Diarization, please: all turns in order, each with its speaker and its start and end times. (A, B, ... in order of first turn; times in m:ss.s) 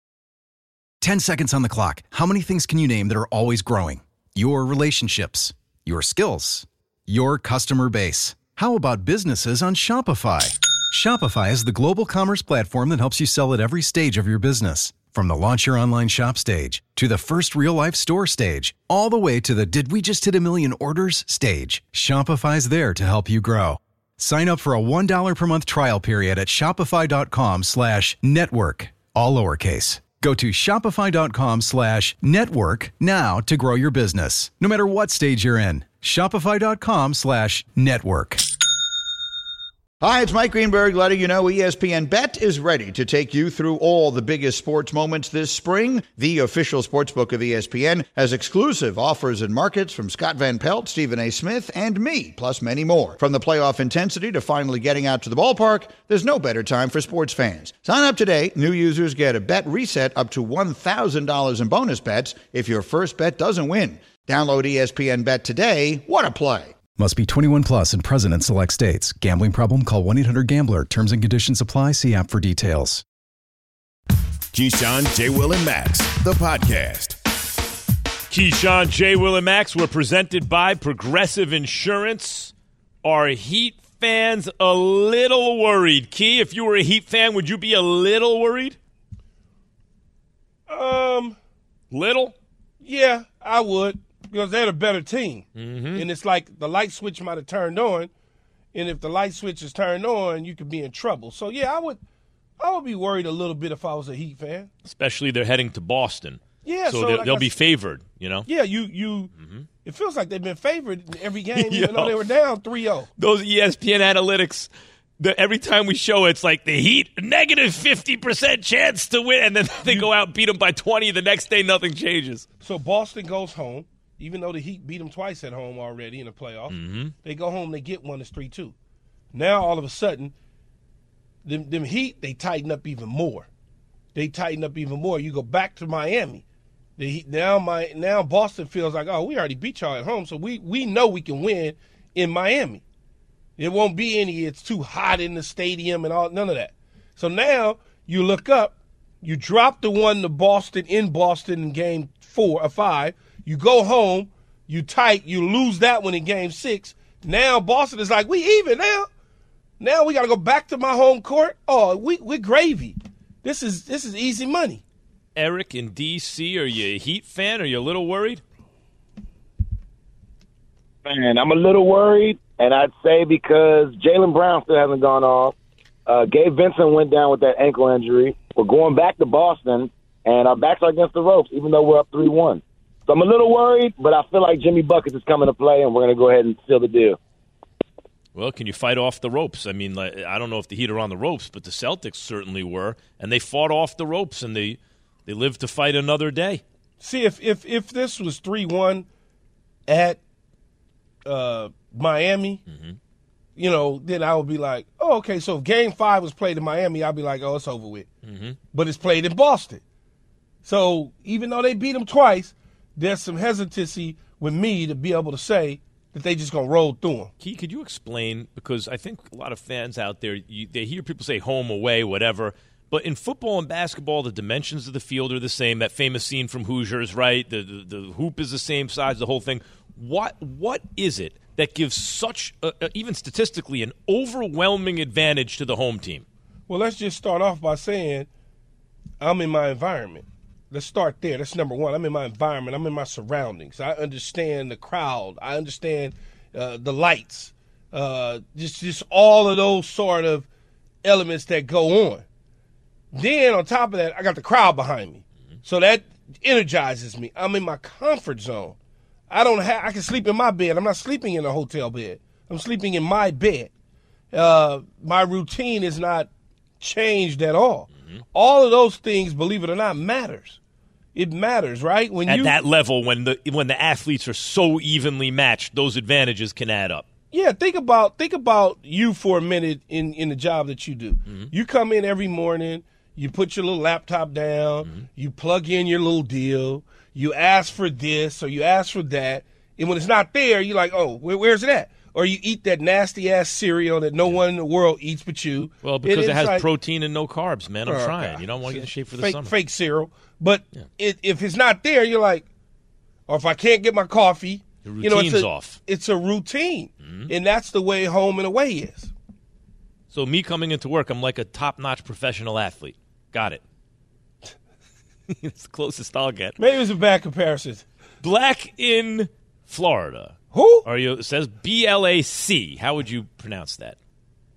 0:01.0-0:38.4 A
0:40.0-1:06.7 B
1:07.0-1:13.0 A
1:14.5-1:17.2 C
1:18.3-1:22.5 D
1:23.0-1:28.8 D
1:30.7-1:31.4 E
1:31.9-1:32.3 D
1:32.8-1:38.1 E
1:35.6-1:36.0 D
1:38.7-1:42.0 E
1:42.6-1:44.7 E
1:44.8-1:48.5 D
1:46.6-1:47.5 E
1:48.5-1:49.3 E
1:49.4-1:49.7 D
1:49.8-1:53.1 E
1:51.5-1:52.2 D
1:53.2-2:02.4 D
2:02.6-2:08.7 E
2:06.7-2:07.1 D
2:09.3-2:10.3 E
2:11.4-2:13.5 E
2:14.1-2:16.4 E
2:17.0-2:22.8 E
2:23.6-2:39.1 E
2:39.8-2:44.8 E
2:45.4-2:48.4 D
2:51.0-2:55.5 F
2:56.1-3:07.2 F
3:08.4-3:16.6 D
3:17.0-3:19.0 E
3:19.9-3:20.2 E
3:21.2-3:22.6 E
3:22.7-3:23.0 D
3:23.6-3:28.1 E
3:28.2-3:28.6 D
3:28.7-3:29.8 E
3:30.6-3:37.3 E
3:37.4-3:56.2 D
3:56.7-3:58.3 E
3:59.2-4:10.5 E
4:11.0-4:12.2 E
4:13.1-4:18.8 E
4:19.3-4:23.7 E
4:24.3-4:26.3 E
4:26.8-4:30.6 E
4:31.1-4:32.6 E
4:32.2-4:37.1 D
4:37.3-4:56.7 E
4:41.2-4:41.5 D
4:55.8-4:59.5 D
4:57.8-5:02.4 E
5:03.3-5:09.1 E
5:04.8-5:05.8 D
5:07.0-5:07.3 D
5:10.1-5:13.6 D
5:15.3-5:16.6 D
5:16.6-5:17.8 E
5:18.2-5:24.0 D
5:20.5-5:20.8 E